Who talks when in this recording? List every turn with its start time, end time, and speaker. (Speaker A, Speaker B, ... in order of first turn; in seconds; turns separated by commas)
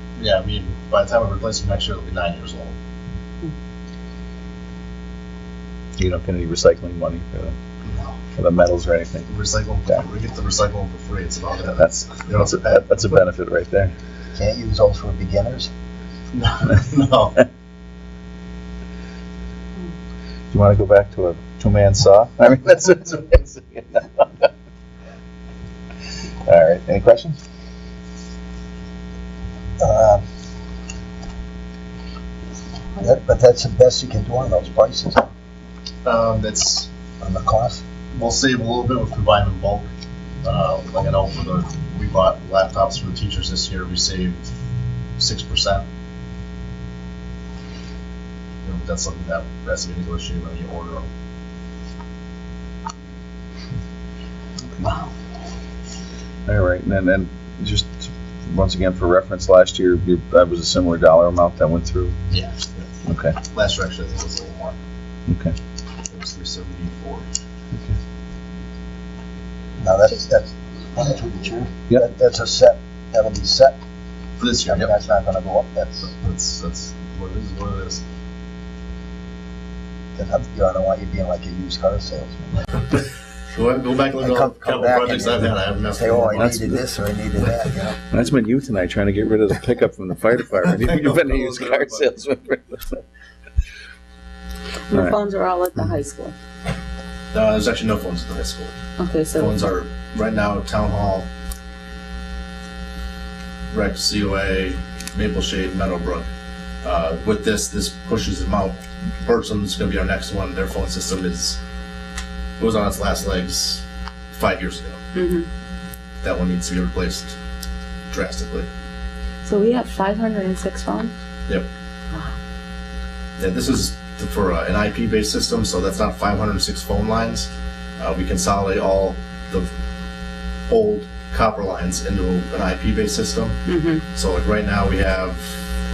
Speaker A: 0.2-2.7, Speaker B: 6.0-7.5, Speaker A: 7.8-8.2, Speaker B: 8.3-9.3, Speaker A: 9.3-13.0, Speaker B: 11.8-13.9, Speaker C: 14.3-15.7, Speaker A: 16.3-17.4, Speaker B: 20.5-24.5, Speaker B: 26.4-27.4, Speaker C: 29.8-30.2, Speaker C: 33.0-35.3, Speaker A: 36.0-36.9, Speaker C: 37.2-37.8, Speaker A: 38.1-39.9, Speaker A: 40.4-44.4, Speaker A: 45.2-45.8, Speaker A: 48.6-51.1, Speaker B: 56.5-62.2, Speaker A: 62.3-62.9, Speaker B: 63.1-63.4, Speaker A: 63.5-64.8, Speaker B: 65.3-65.5, Speaker A: 66.1-67.2, Speaker C: 69.8-73.8, Speaker A: 74.4-74.9, Speaker C: 74.6-76.1, Speaker A: 76.0-78.0, Speaker C: 80.1-82.7, Speaker A: 83.5-86.7, Speaker C: 84.2-88.0, Speaker B: 86.3-86.8, Speaker B: 88.1-93.0, Speaker A: 90.7-92.0, Speaker D: 94.9-96.3, Speaker A: 97.3-98.7, Speaker D: 99.0-99.6, Speaker A: 99.3-101.3, Speaker A: 103.7-106.3, Speaker A: 106.8-111.6, Speaker A: 112.6-115.0, Speaker D: 115.1-115.5, Speaker A: 116.2-117.3, Speaker A: 118.1-118.7, Speaker D: 119.4-121.1, Speaker A: 123.4-129.7, Speaker A: 130.7-133.6, Speaker D: 133.7-134.0, Speaker A: 134.1-135.5